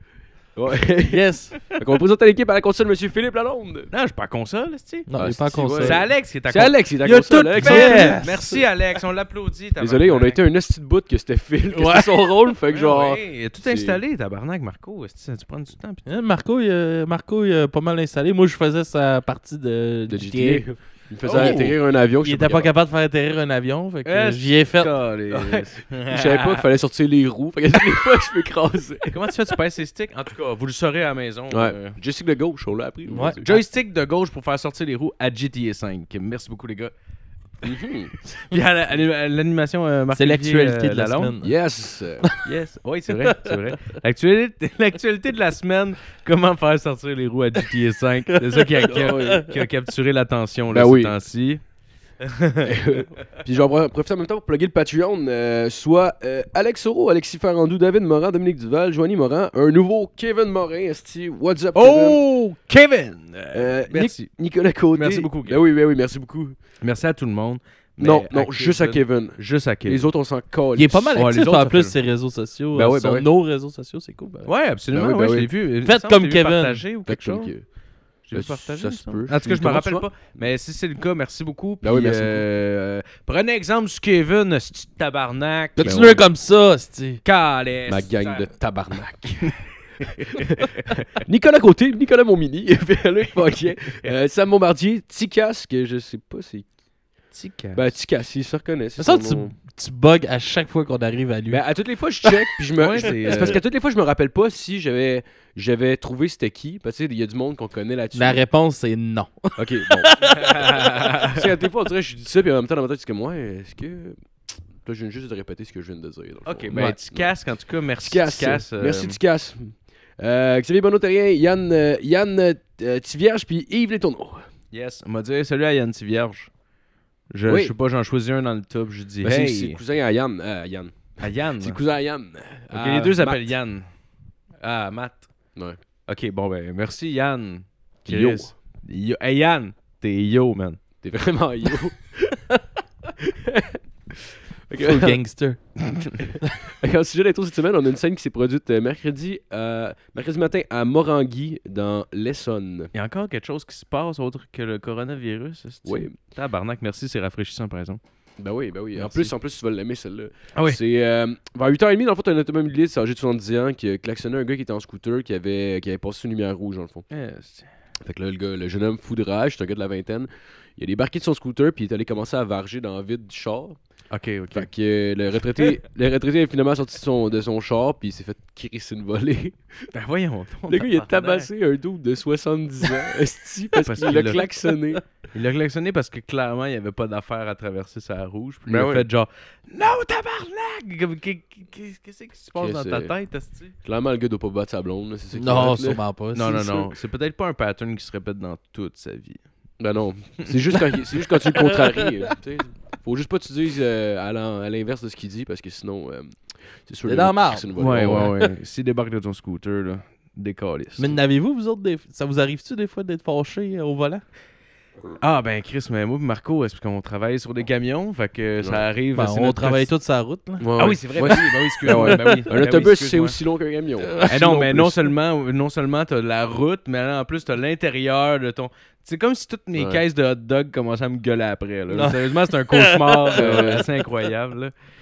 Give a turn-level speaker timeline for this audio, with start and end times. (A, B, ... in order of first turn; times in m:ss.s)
0:00.5-0:03.9 A
0:01.1-0:01.6 B
0:03.9-0:10.4 C
0:05.1-0:06.0 B
0:05.2-0:08.5 A
0:07.6-0:08.6 B
0:09.8-0:14.0 A
0:11.7-0:12.5 B
0:12.7-0:16.2 C
0:16.0-0:20.6 B
0:20.1-0:22.7 A
0:21.2-0:21.7 C
0:21.2-0:24.9 B
0:24.0-0:26.6 C
0:25.3-0:29.2 A
0:29.1-0:32.0 C
0:31.5-0:33.6 A
0:33.1-0:33.4 B
0:33.4-0:36.9 C
0:37.6-0:38.1 A
0:38.3-0:41.3 C
0:40.1-0:41.6 B
0:41.4-0:42.3 A
0:42.4-0:51.6 C
0:48.9-0:49.4 A
0:50.7-0:51.1 A
0:52.2-0:52.7 C
0:52.6-1:02.2 A
1:01.7-1:04.4 C
1:03.5-1:06.6 A
1:04.9-1:05.6 C
1:06.8-1:10.1 C
1:08.0-1:11.6 A
1:10.8-1:14.5 B
1:11.1-1:11.9 C
1:12.7-1:13.3 A
1:14.4-1:17.6 C
1:14.9-1:15.5 A
1:15.8-1:16.8 B
1:17.0-1:17.7 A
1:18.2-1:26.2 C
1:18.3-1:20.1 A
1:21.8-1:22.4 A
1:25.8-1:27.2 B
1:25.8-1:26.2 A
1:27.2-1:28.5 C
1:27.9-1:29.6 A
1:29.4-1:30.3 C
1:30.3-1:36.7 A
1:37.3-1:37.9 C
1:37.7-1:39.5 A
1:39.0-1:41.6 B
1:41.5-1:48.4 A
1:42.8-1:43.6 C
1:43.0-1:43.5 B
1:48.1-1:50.7 B
1:49.6-1:50.4 A
1:50.3-1:51.5 C
1:51.2-1:57.3 A
1:56.4-1:59.2 C
1:58.0-2:04.5 A
2:04.7-2:06.5 C
2:07.3-2:09.8 C
2:07.5-2:07.7 A
2:09.2-2:13.5 A
2:11.2-2:11.8 C
2:12.7-2:13.9 C
2:14.6-2:15.5 C
2:16.1-2:20.8 C
2:18.0-2:18.5 A
2:21.0-2:22.2 A
2:23.3-2:23.8 A
2:24.7-2:25.2 A
2:24.7-2:26.6 B
2:26.6-2:32.9 A
2:32.9-2:38.0 C
2:35.8-2:36.1 A
2:38.4-2:47.0 A
2:40.5-2:40.8 C
2:47.1-2:47.7 C
2:48.0-2:53.8 A
2:54.1-2:54.7 C
2:54.5-2:59.9 A
2:59.9-3:01.5 C
3:00.7-3:05.0 A
3:03.8-3:04.5 C
3:05.3-3:13.7 C
3:08.7-3:09.0 A
3:12.5-3:13.1 A
3:13.8-3:16.0 A
3:15.3-3:16.8 B
3:16.3-3:19.4 C
3:19.8-3:28.4 A
3:27.1-3:27.7 B
3:27.7-3:31.1 C
3:31.0-3:34.2 B
3:35.2-3:39.9 C
3:39.1-3:40.7 B
3:40.6-3:45.0 A
3:40.8-3:43.4 C
3:41.2-3:42.4 B
3:44.2-3:54.7 C
3:49.7-3:50.0 A
3:51.9-3:53.4 B
3:53.3-3:53.8 A